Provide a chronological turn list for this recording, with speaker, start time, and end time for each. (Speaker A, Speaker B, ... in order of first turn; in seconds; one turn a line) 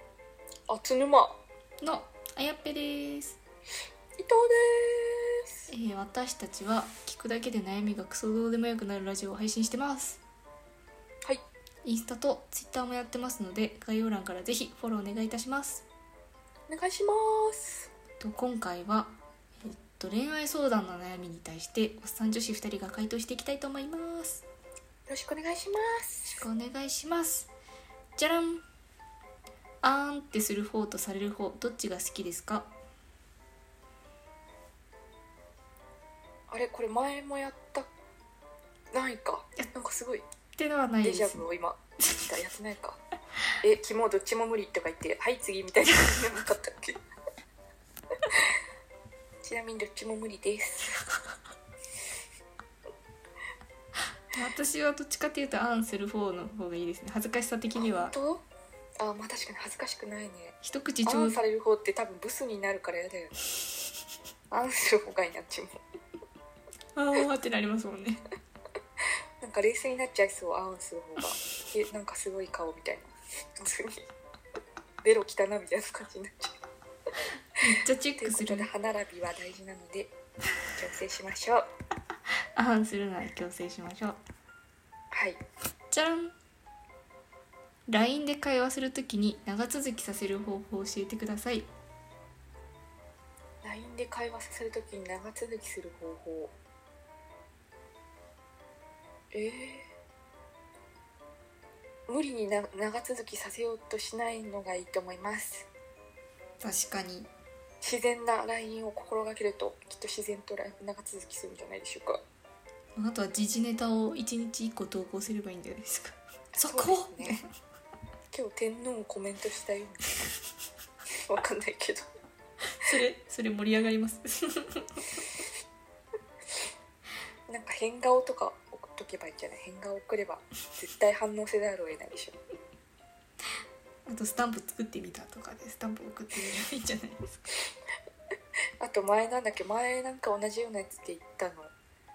Speaker A: 0.7-1.4
Speaker B: 1.8-3.4
Speaker A: 4.2-5.7
Speaker B: 5.7-10.2
Speaker B: 11.8-15.8
Speaker A: 16.7-17.9
Speaker B: 18.2-24.4
Speaker A: 25.1-26.4
Speaker B: 26.3-27.5
Speaker B: 28.1-28.6
Speaker B: 29.8-32.7
Speaker A: 36.5-37.9
Speaker A: 38.9-40.3
Speaker B: 40.5-41.5
Speaker A: 41.0-43.0
Speaker A: 43.6-47.0
Speaker A: 49.4-51.0
Speaker B: 54.3-58.1
Speaker A: 57.8-58.4
Speaker A: 59.0-63.4
Speaker B: 60.6-61.4
Speaker A: 64.5-65.8
Speaker B: 66.9-68.2
Speaker A: 69.4-74.0
Speaker A: 75.0-76.6
Speaker B: 77.6-78.7
Speaker A: 78.2-80.1
Speaker A: 80.7-81.7
Speaker B: 82.5-84.2
Speaker A: 85.1-85.4
Speaker B: 85.9-86.3
Speaker B: 87.9-91.7
Speaker A: 93.6-96.5
Speaker A: 99.3-99.9
Speaker A: 102.1-105.7
Speaker B: 106.6-107.3
Speaker A: 107.8-112.2
Speaker B: 113.0-117.5
Speaker A: 116.5-117.4
Speaker A: 118.3-120.2
Speaker A: 121.1-122.0
Speaker B: 122.8-125.2
Speaker A: 127.5-132.3
Speaker B: 134.1-137.4
Speaker A: 138.8-141.7